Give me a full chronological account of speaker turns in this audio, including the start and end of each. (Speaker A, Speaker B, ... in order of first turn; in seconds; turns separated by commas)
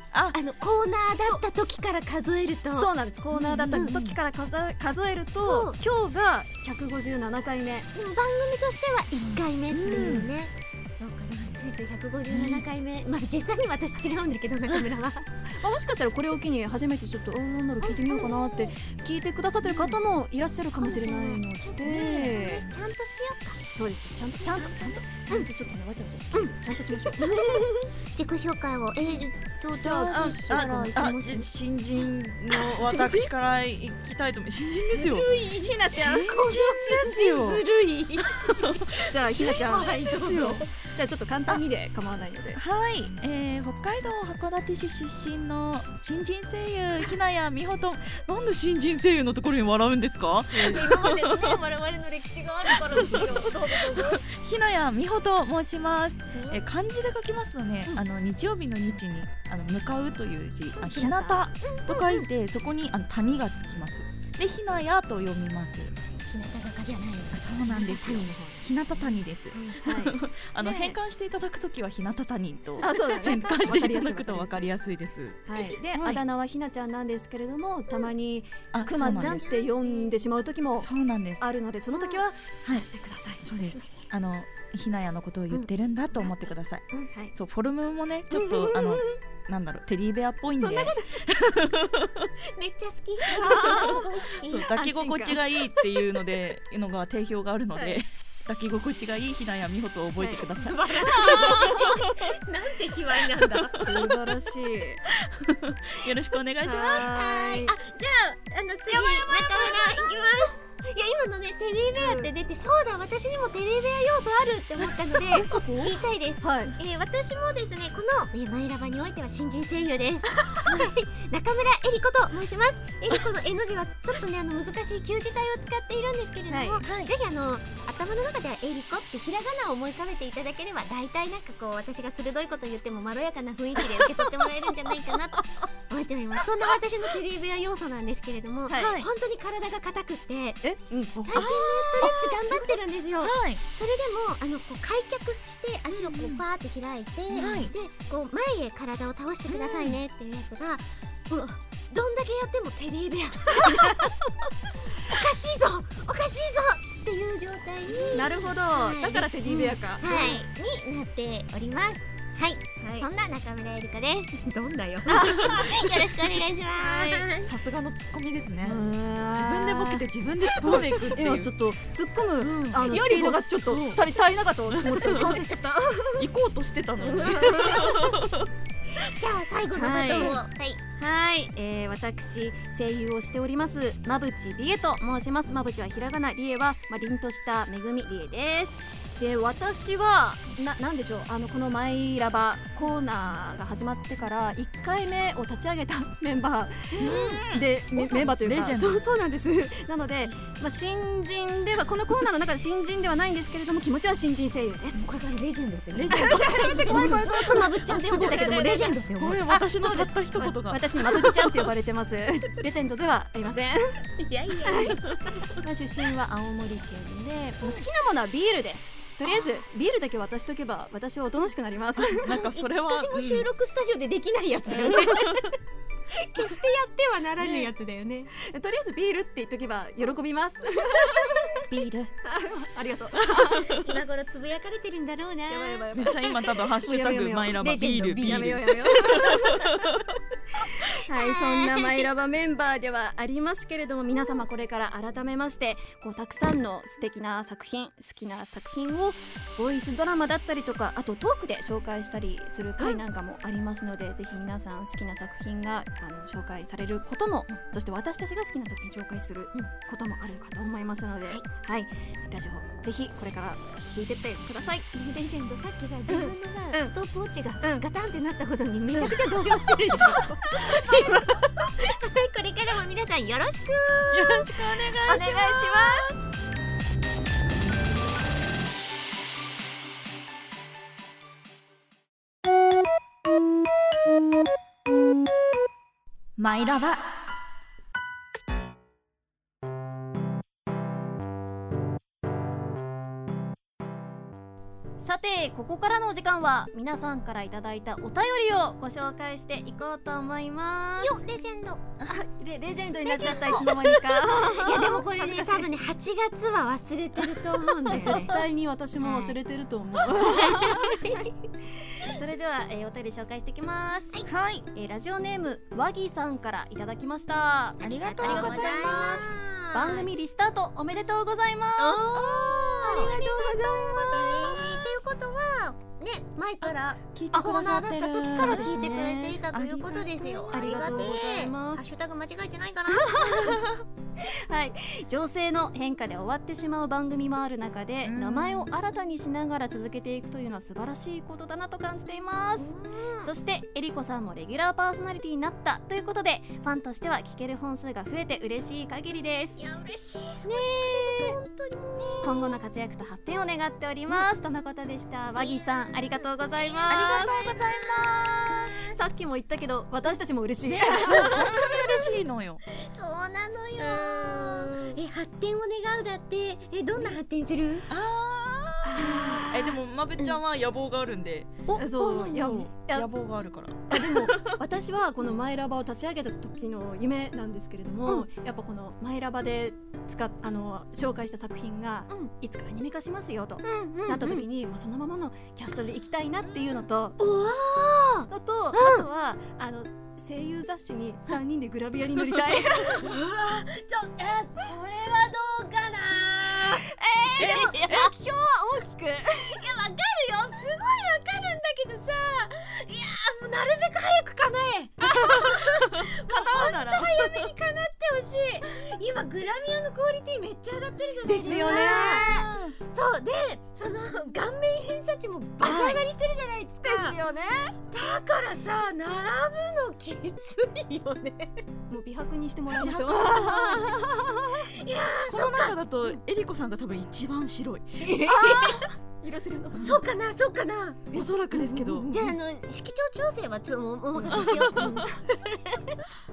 Speaker A: 0.3-2.9, Speaker B: 2.7-7.9, Speaker C: 3.3-4.2, Speaker A: 5.4-5.8, Speaker A: 7.9-15.3, Speaker C: 9.2-10.3, Speaker B: 9.8-10.3, Speaker C: 12.3-12.6, Speaker B: 15.5-22.6, Speaker A: 17.8-18.7, Speaker A: 19.6-20.0, Speaker A: 20.8-23.6, Speaker B: 23.7-27.7, Speaker A: 24.4-25.5, Speaker A: 26.3-31.5, Speaker B: 29.8-30.7, Speaker C: 29.9-35.4, Speaker B: 32.8-33.3, Speaker A: 34.9-40.7, Speaker C: 35.9-37.6, Speaker B: 35.9-36.2, Speaker C: 38.3-39.6, Speaker B: 39.0-42.6, Speaker C: 42.5-51.6, Speaker B: 50.5-50.8, Speaker A: 50.6-54.2, Speaker C: 52.7-65.9, Speaker A: 56.3-56.6, Speaker B: 60.8-61.5, Speaker A: 61.6-62.3, Speaker A: 66.2-69.8, Speaker C: 67.3-76.2, Speaker B: 69.8-71.0, Speaker B: 72.8-74.7, Speaker B: 75.5-83.5, Speaker C: 78.7-79.4, Speaker A: 79.0-80.1, Speaker C: 80.8-81.4, Speaker C: 83.4-92.3, Speaker A: 83.6-84.0, Speaker B: 88.3-89.2, Speaker B: 90.6-91.3, Speaker A: 92.5-94.7, Speaker B: 93.3-94.1, Speaker C: 93.4-102.4, Speaker B: 94.7-95.4, Speaker B: 97.7-98.0, Speaker B: 100.2-101.9, Speaker A: 100.5-103.9, Speaker B: 103.7-105.0, Speaker C: 105.1-107.1, Speaker B: 106.6-107.7, Speaker A: 107.0-140.6, Speaker B: 108.9-109.9, Speaker B: 112.0-112.3, Speaker B: 115.3-116.7, Speaker B: 126.5-126.8, Speaker C: 126.8-127.1, Speaker B: 138.7-139.0, Speaker C: 138.8-139.1, Speaker B: 140.6-142.2, Speaker A: 141.2-154.2, Speaker C: 141.3-143.6, Speaker C: 146.0-146.4, Speaker B: 147.3-147.6, Speaker C: 147.3-147.7, Speaker C: 149.5-150.0, Speaker A: 155.0-167.5, Speaker B: 158.1-160.4, Speaker B: 162.8-163.1, Speaker B: 165.1-165.7, Speaker C: 165.1-166.1, Speaker B: 166.7-167.3, Speaker C: 167.4-171.5, Speaker B: 168.6-176.3, Speaker C: 172.4-174.0, Speaker C: 174.7-175.4, Speaker C: 176.2-178.5, Speaker B: 177.0-178.1, Speaker A: 179.0-180.8, Speaker B: 179.7-180.4, Speaker B: 181.0-205.1, Speaker C: 197.0-199.0, Speaker A: 205.0-209.4, Speaker C: 205.9-208.6, Speaker B: 206.1-214.1, Speaker C: 209.2-211.7, Speaker A: 214.2-215.4, Speaker B: 214.6-222.3, Speaker A: 219.2-219.6, Speaker C: 222.1-223.5, Speaker A: 222.2-225.6, Speaker C: 224.7-225.5, Speaker A: 226.1-228.3, Speaker C: 227.4-227.7, Speaker B: 228.3-231.5, Speaker C: 231.7-232.1, Speaker B: 232.2-233.8, Speaker C: 233.1-234.0, Speaker A: 233.6-236.0, Speaker B: 235.5-237.7, Speaker C: 235.9-240.1, Speaker A: 237.5-239.6, Speaker B: 238.2-239.9, Speaker B: 240.6-265.1, Speaker A: 241.1-242.1, Speaker A: 265.0-276.2, Speaker B: 266.1-266.9, Speaker B: 268.9-270.9, Speaker C: 274.1-275.3, Speaker B: 275.0-276.1, Speaker C: 286.4-287.0, Speaker B: 295.0-301.2, Speaker A: 301.0-301.8, Speaker B: 302.1-305.7, Speaker A: 303.1-308.4, Speaker B: 307.9-314.2, Speaker C: 307.9-308.2, Speaker A: 309.0-309.4, Speaker A: 310.1-311.3, Speaker C: 314.3-314.6, Speaker B: 314.7-324.7, Speaker C: 317.8-319.2, Speaker A: 317.8-320.1, Speaker A: 321.8-333.6, Speaker C: 322.1-324.9, Speaker C: 326.6-328.9, Speaker B: 328.2-329.4, Speaker C: 329.5-330.6, Speaker B: 330.5-331.9, Speaker B: 332.9-349.6, Speaker C: 338.0-338.7, Speaker A: 342.6-343.3, Speaker A: 349.6-352.5, Speaker B: 350.4-351.4, Speaker B: 352.2-357.4, Speaker A: 355.4-358.9, Speaker C: 356.9-358.6, Speaker B: 358.9-361.5, Speaker C: 360.6-362.6, Speaker A: 361.3-367.9, Speaker B: 363.9-364.7, Speaker C: 367.9-374.6, Speaker B: 368.8-369.7, Speaker A: 371.7-372.6, Speaker B: 371.8-373.1, Speaker B: 373.9-387.2, Speaker A: 383.6-384.4, Speaker A: 387.2-389.1, Speaker B: 388.3-393.1, Speaker A: 392.9-398.1, Speaker B: 396.8-399.6, Speaker C: 397.4-398.1, Speaker A: 399.4-417.2, Speaker C: 405.1-407.5, Speaker B: 411.2-412.5, Speaker C: 412.3-412.7, Speaker C: 415.6-416.0, Speaker B: 416.8-417.7, Speaker A: 417.9-421.6, Speaker B: 421.9-424.7, Speaker C: 422.7-423.9, Speaker A: 424.7-425.8, Speaker C: 425.3-428.1, Speaker A: 428.0-428.9, Speaker B: 428.2-430.0, Speaker C: 429.7-430.0, Speaker A: 429.8-431.1, Speaker C: 431.1-432.2, Speaker B: 431.1-432.3, Speaker A: 432.1-436.0, Speaker C: 434.2-435.1